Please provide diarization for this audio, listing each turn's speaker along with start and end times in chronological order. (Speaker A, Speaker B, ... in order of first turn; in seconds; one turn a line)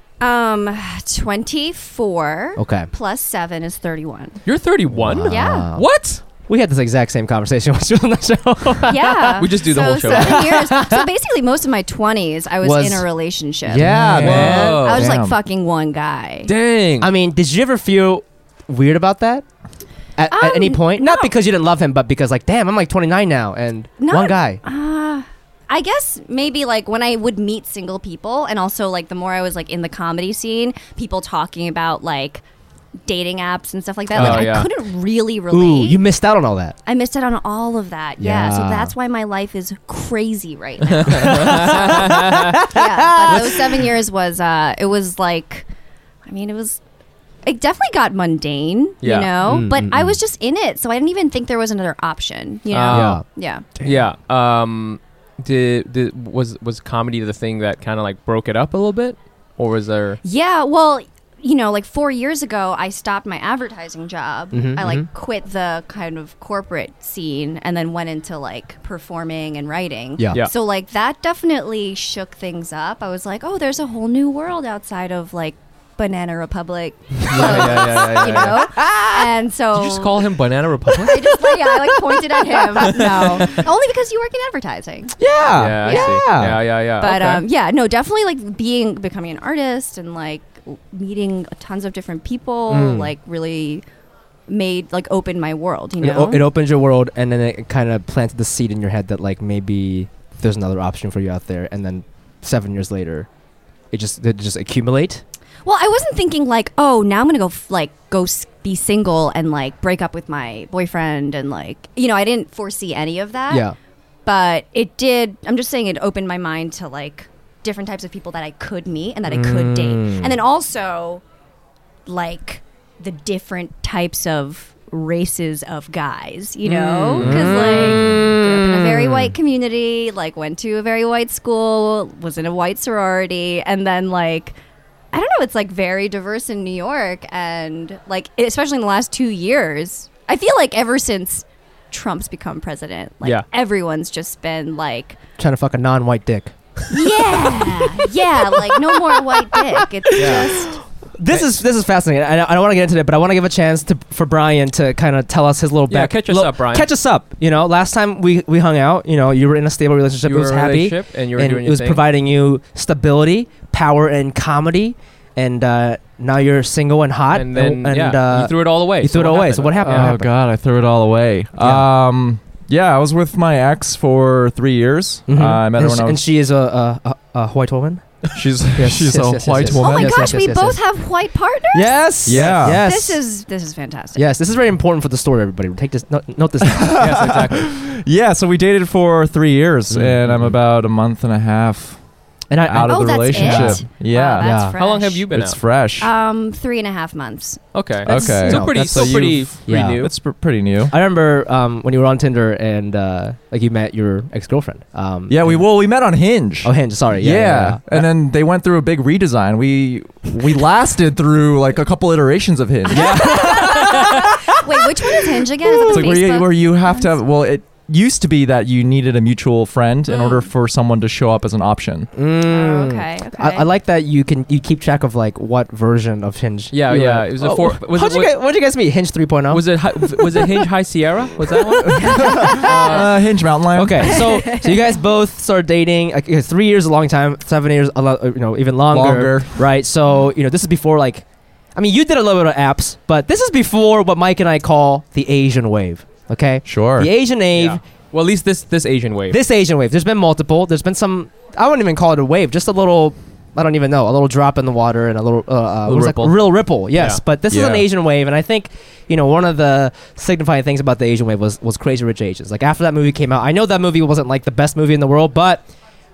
Speaker A: 0.2-4.4
Speaker B: 2.6-2.9
Speaker C: 4.5-6.2
Speaker B: 4.9-11.1
Speaker A: 5.3-5.7
Speaker A: 8.9-16.5
Speaker C: 9.4-10.6
Speaker B: 12.6-13.1
Speaker B: 13.7-14.8
Speaker D: 13.8-15.4
Speaker C: 14.2-15.2
Speaker C: 16.5-17.1
Speaker B: 17.0-19.4
Speaker B: 20.2-24.6
Speaker A: 20.3-21.3
Speaker A: 24.0-32.4
Speaker A: 33.0-36.0
Speaker C: 34.1-34.7
Speaker B: 34.1-34.6
Speaker B: 35.5-36.8
Speaker A: 36.9-45.7
Speaker B: 38.2-38.9
Speaker C: 40.9-42.6
Speaker B: 41.1-43.8
Speaker A: 46.2-46.8
Speaker A: 47.5-53.7
Speaker C: 49.0-49.3
Speaker B: 49.4-50.2
Speaker C: 52.7-53.2
Speaker B: 52.9-53.2
Speaker C: 53.8-60.2
Speaker A: 60.2-80.2
Speaker B: 64.5-65.1
Speaker C: 77.3-78.7
Speaker B: 77.3-79.2
Speaker C: 79.7-81.5
Speaker A: 81.0-85.2
Speaker C: 82.8-83.6
Speaker B: 85.2-86.6
Speaker D: 85.5-85.8
Speaker C: 85.5-87.4
Speaker A: 85.8-86.2
Speaker A: 87.0-93.8
Speaker B: 92.7-93.1
Speaker A: 94.5-96.5
Speaker B: 96.0-103.3
Speaker B: 103.9-105.2
Speaker A: 105.7-113.7
Speaker B: 113.5-113.8
Speaker A: 114.2-121.2
Speaker B: 119.3-120.3
Speaker A: 122.1-134.6
Speaker C: 126.7-128.0
Speaker B: 126.8-129.3
Speaker A: 135.1-145.2
Speaker B: 145.4-146.5
Speaker A: 146.9-150.8
Speaker B: 148.7-150.5
Speaker C: 150.2-150.5
Speaker B: 151.2-170.3
Speaker C: 155.9-156.9
Speaker C: 160.2-162.0
Speaker C: 167.3-170.2
Speaker D: 169.8-176.2
Speaker B: 171.6-171.9
Speaker B: 175.3-178.1
Speaker D: 178.3-180.4
Speaker B: 178.7-180.8
Speaker A: 179.7-184.3
Speaker B: 181.7-183.2
Speaker D: 182.2-182.8
Speaker B: 184.2-187.3
Speaker D: 186.6-192.0
Speaker C: 187.0-187.7
Speaker B: 189.9-190.6
Speaker B: 192.5-193.8
Speaker D: 192.6-194.7
Speaker A: 192.8-195.2
Speaker B: 194.4-194.8
Speaker C: 194.8-195.6
Speaker D: 195.3-196.1
Speaker A: 196.0-198.4
Speaker C: 197.7-200.1
Speaker D: 198.1-200.9
Speaker B: 198.1-200.0
Speaker B: 200.9-205.6
Speaker D: 205.3-213.6
Speaker B: 206.6-208.0
Speaker B: 212.9-214.6
Speaker A: 212.9-217.2
Speaker C: 213.6-213.9
Speaker D: 215.7-222.1
Speaker B: 215.8-216.0
Speaker A: 220.1-220.5
Speaker B: 222.2-230.6
Speaker A: 222.5-223.7
Speaker C: 226.7-228.3
Speaker C: 229.5-233.1
Speaker B: 231.5-232.2
Speaker D: 231.8-234.3
Speaker A: 232.0-233.0
Speaker B: 233.7-241.2
Speaker A: 234.2-234.8
Speaker D: 238.9-239.7
Speaker B: 241.8-247.8
Speaker D: 246.7-247.1
Speaker C: 247.5-249.4
Speaker B: 249.3-265.7
Speaker C: 255.9-257.2
Speaker D: 257.5-257.9